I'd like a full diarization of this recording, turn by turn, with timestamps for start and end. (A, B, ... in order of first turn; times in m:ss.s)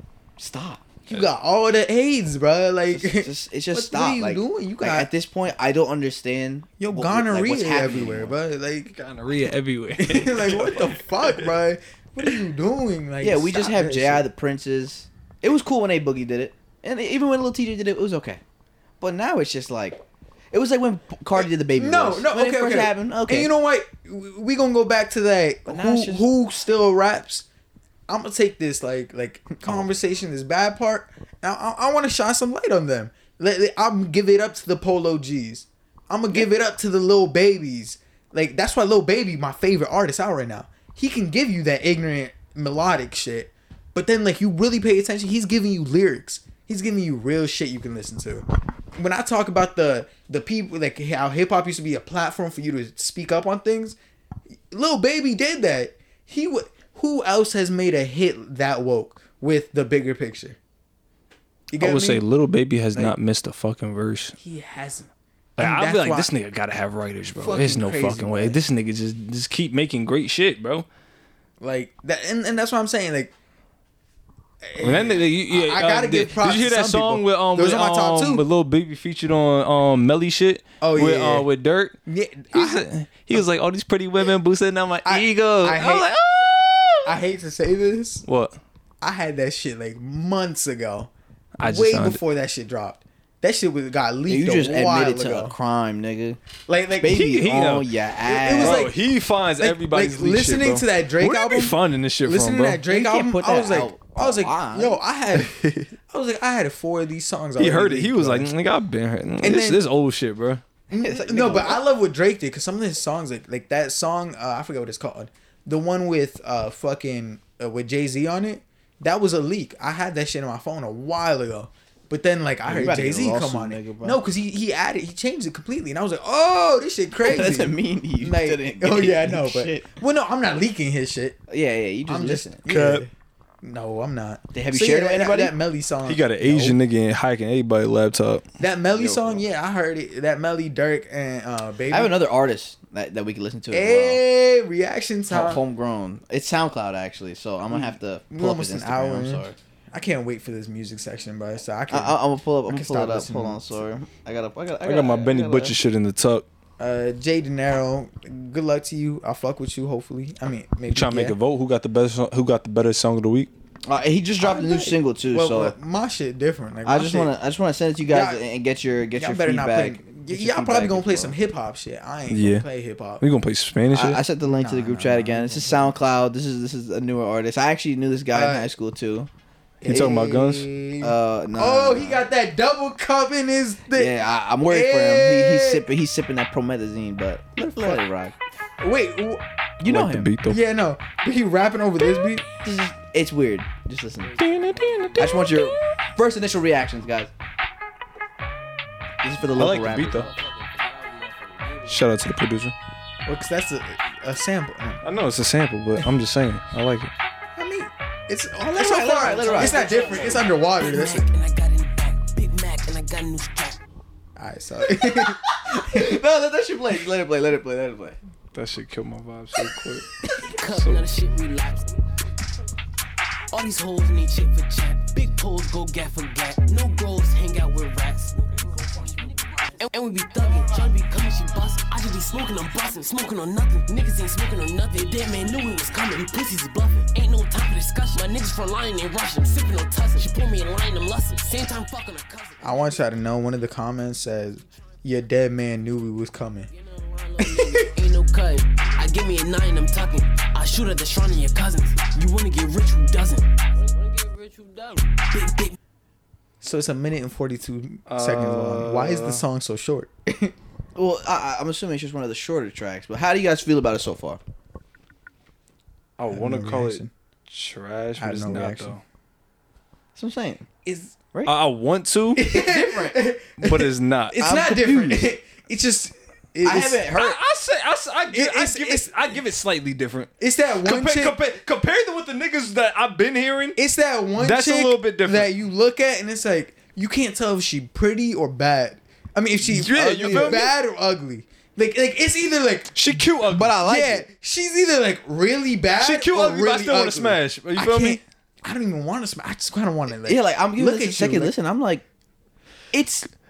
0:00.4-0:00.9 A
0:01.1-0:05.1 B
0:02.9-0:08.3 A
0:06.8-0:09.0 B
0:08.9-0:11.5 C
0:10.0-0:14.2 B
0:13.2-0:18.4 A
0:19.0-0:23.5 A
0:21.4-0:27.5 B
0:25.7-0:26.3 A
0:28.1-0:54.0 B
0:54.7-1:00.6 B
1:01.7-1:02.2 B
1:01.8-1:04.3 C
1:04.4-1:06.3 B
1:05.6-1:10.9 C
1:07.3-1:08.6 B
1:11.6-1:13.3 B
1:14.6-1:18.4 B
1:14.8-1:22.0 C
1:20.8-1:21.5 B
1:22.1-1:23.4 B
1:22.5-1:27.1 C
1:25.0-1:26.1 B
1:27.0-1:28.2 B
1:28.3-1:28.6 C
1:29.0-1:31.1 B
1:31.6-1:32.2 C
1:31.6-1:35.6 B
1:34.3-1:36.4 A
1:36.7-1:37.2 B
1:37.0-1:38.9 A
1:37.0-1:37.9 C
1:38.2-1:39.0 B
1:38.6-1:42.8 C
1:39.6-1:48.5 B
1:42.9-1:45.0 A
1:47.6-1:50.6 C
1:49.4-1:49.8 B
1:50.9-2:11.4 B
1:51.0-1:51.8 A
2:02.7-2:04.2 A
2:07.2-2:09.9 A
2:11.5-2:13.1 A
2:12.1-2:13.1 B
2:12.7-2:13.0 C
2:13.6-2:16.8 B
2:14.5-2:15.5 A
2:16.0-2:18.4 C
2:18.6-2:22.2 B
2:19.0-2:19.4 A
2:21.9-2:24.2 A
2:23.7-2:25.6 B
2:25.3-2:29.6 A
2:27.7-2:33.7 B
2:31.9-2:35.8 A
2:34.8-2:36.5 C
2:36.8-2:41.4 B
2:40.9-2:43.5 C
2:43.9-2:45.8 A
2:44.4-2:47.3 B
2:46.8-2:51.4 A
2:48.1-2:48.4 B
2:49.2-2:53.2 B
2:52.3-2:52.6 C
2:53.2-2:54.2 C
2:53.9-2:59.3 A
2:54.4-2:55.9 B
2:58.3-2:58.7 B
2:59.8-3:05.9 B
2:59.8-3:00.7 C
3:01.0-3:02.2 A
3:03.9-3:08.3 A
3:08.8-3:09.4 B
3:09.8-3:10.3 A
3:09.8-3:10.6 C
3:10.4-3:12.4 B
3:12.6-3:14.4 A
3:14.4-3:15.7 C
3:15.2-3:17.3 A
3:19.2-3:20.3 A
3:19.6-3:20.3 C
3:21.4-3:21.7 D
3:21.9-3:22.8 C
3:23.3-3:25.0 B
3:25.0-3:27.1 C
3:27.6-3:31.3 B
3:28.6-3:29.9 A
3:29.3-3:33.8 D
3:34.4-3:36.2 B
3:35.1-3:38.2 A
3:38.5-3:40.1 C
3:40.4-3:42.0 D
3:40.6-3:41.1 C
3:43.5-4:02.7 D
4:02.6-4:06.7 B
4:07.1-4:15.8 D
4:07.4-4:07.9 B
4:16.6-4:20.5 B
4:18.1-4:19.4 C
4:21.0-4:24.4 A
4:26.2-4:29.0 C
4:26.3-4:27.1 B
4:28.2-4:29.0 B
4:30.2-4:30.7 A
4:30.8-4:31.2 B
4:31.5-4:32.4 C
4:32.4-4:37.1 B
4:32.5-4:33.2 A
4:33.6-4:34.4 C
4:34.4-4:35.3 A
4:36.6-4:37.4 A
4:37.2-4:40.3 C
4:38.3-4:39.4 B
4:40.4-4:41.4 B
4:40.8-4:43.8 C
4:43.8-4:53.3 B
4:44.4-4:45.5 C
4:49.6-4:50.7 C
4:49.9-4:50.7 A
4:53.0-4:53.8 C
4:53.5-4:54.3 A
4:53.8-5:01.5 B
4:56.0-4:58.2 C
5:00.2-5:02.0 A
5:02.9-5:03.3 A